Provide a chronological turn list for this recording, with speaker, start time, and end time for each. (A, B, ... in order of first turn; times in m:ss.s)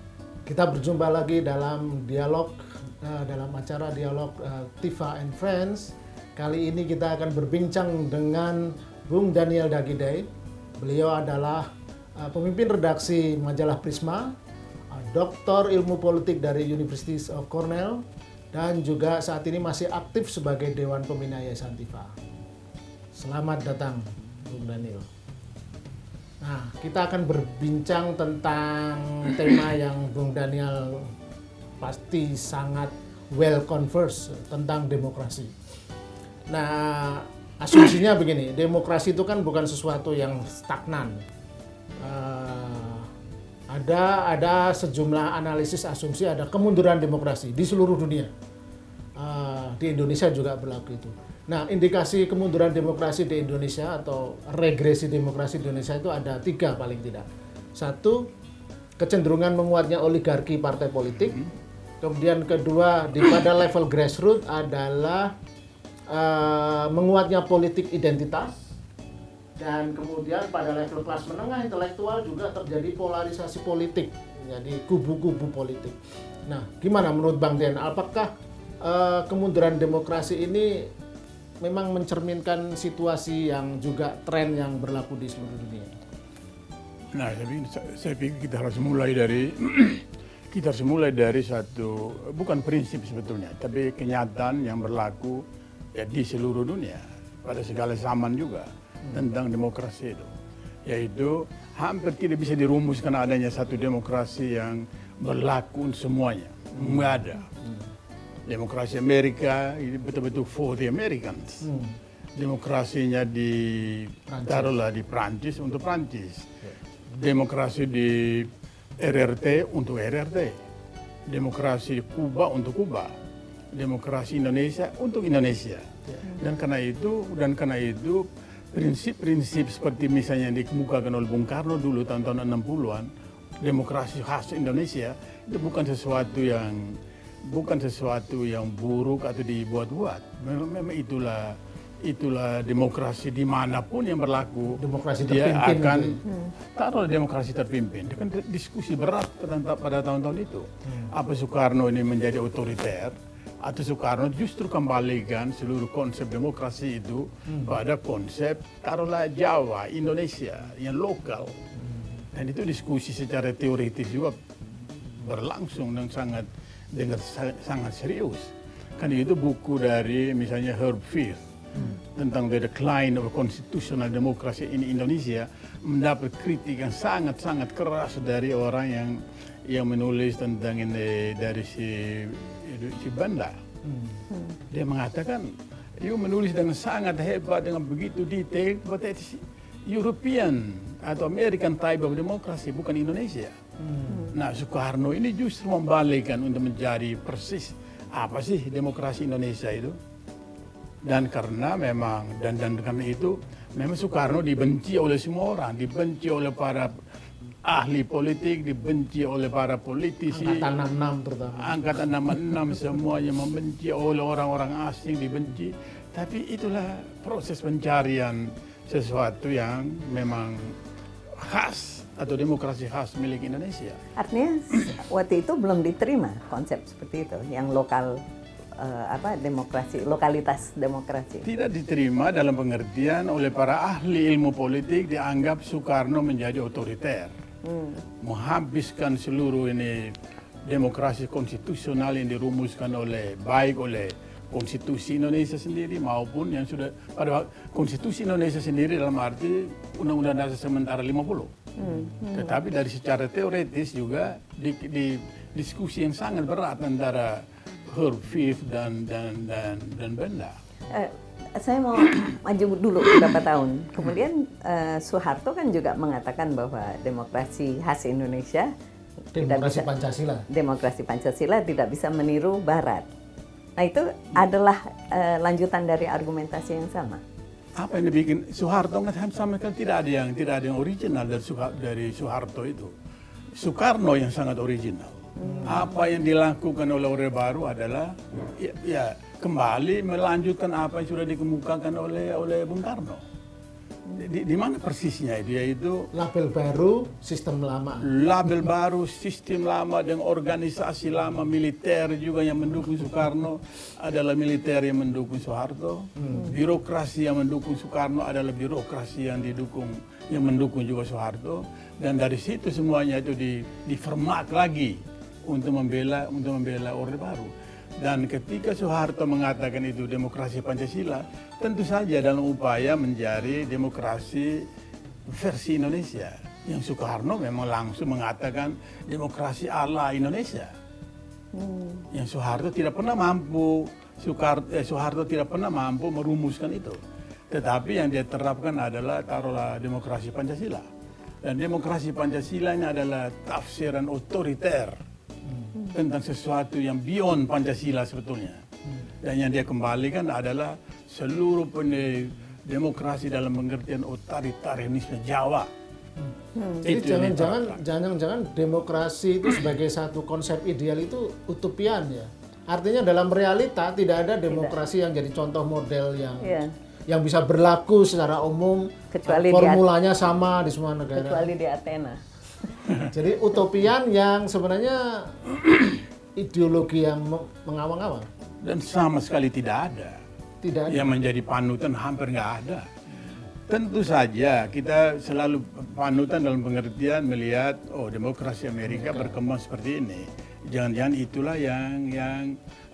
0:00.4-0:10.3 A
0:10.8-0:14.4 A
0:14.9-0:22.2 A
0:23.1-0:25.1 A
0:26.4-0:31.1 A
0:31.8-0:35.5 A
0:36.5-0:41.2 A
0:42.0-0:43.1 A
0:43.7-0:48.3 A
0:49.2-0:58.3 A
0:59.0-1:01.4 A
1:02.0-1:05.3 A
1:06.1-1:08.8 A
1:09.6-1:20.9 A
1:21.6-1:25.9 A
1:27.1-1:40.3 B
1:40.8-1:47.5 B
1:46.7-1:47.9 A
1:48.5-1:51.7 B
1:51.6-1:52.0 A
1:52.3-1:56.5 B
1:54.3-1:54.7 A
1:57.1-2:00.6 B
2:01.3-2:03.1 B
2:03.7-2:13.1 B
2:13.6-2:41.6 B
2:24.8-2:26.2 A
2:30.8-2:31.1 A
2:37.5-2:37.8 A
2:41.9-2:42.2 A
2:42.3-2:44.4 B
2:45.2-2:51.4 B
2:52.0-3:03.6 B
3:03.8-3:04.2 A
3:04.3-3:04.6 C
3:04.7-3:13.6 B
3:13.8-3:14.3 A
3:14.3-3:20.0 B
3:21.0-3:27.0 B
3:27.6-3:30.7 B
3:30.3-3:31.8 A
3:31.5-3:40.8 B
3:41.3-3:44.0 B
3:44.2-3:48.2 C
3:48.8-3:51.5 C
3:51.4-3:57.3 B
3:57.6-3:58.0 C
3:58.2-4:11.5 B
4:11.8-4:12.6 C
4:12.3-4:20.5 B
4:20.9-4:28.7 C
4:29.3-4:30.4 A
4:29.4-4:29.9 C
4:30.5-4:33.0 C
4:33.8-4:37.2 C
4:37.8-4:42.9 B
4:43.5-4:53.2 B
4:45.4-4:45.8 C
4:45.4-4:45.9 A
4:54.2-4:56.1 B
4:56.1-4:58.1 A
4:58.0-5:24.7 B
5:06.2-5:06.5 A
5:25.3-5:30.7 B
5:31.5-5:32.0 C
5:32.1-5:40.9 B
5:41.4-5:45.0 B
5:45.4-5:45.7 A
5:45.9-5:48.6 B
5:49.2-5:55.7 B
5:56.2-6:11.5 A
5:56.6-5:56.8 C
5:56.8-5:57.8 B
6:06.4-6:06.7 C
6:09.1-6:09.8 C
6:11.1-6:12.2 C
6:13.0-6:18.3 A
6:18.6-6:20.2 B
6:20.6-6:21.1 A
6:20.9-6:22.9 B
6:23.7-6:32.6 B
6:28.8-6:29.4 A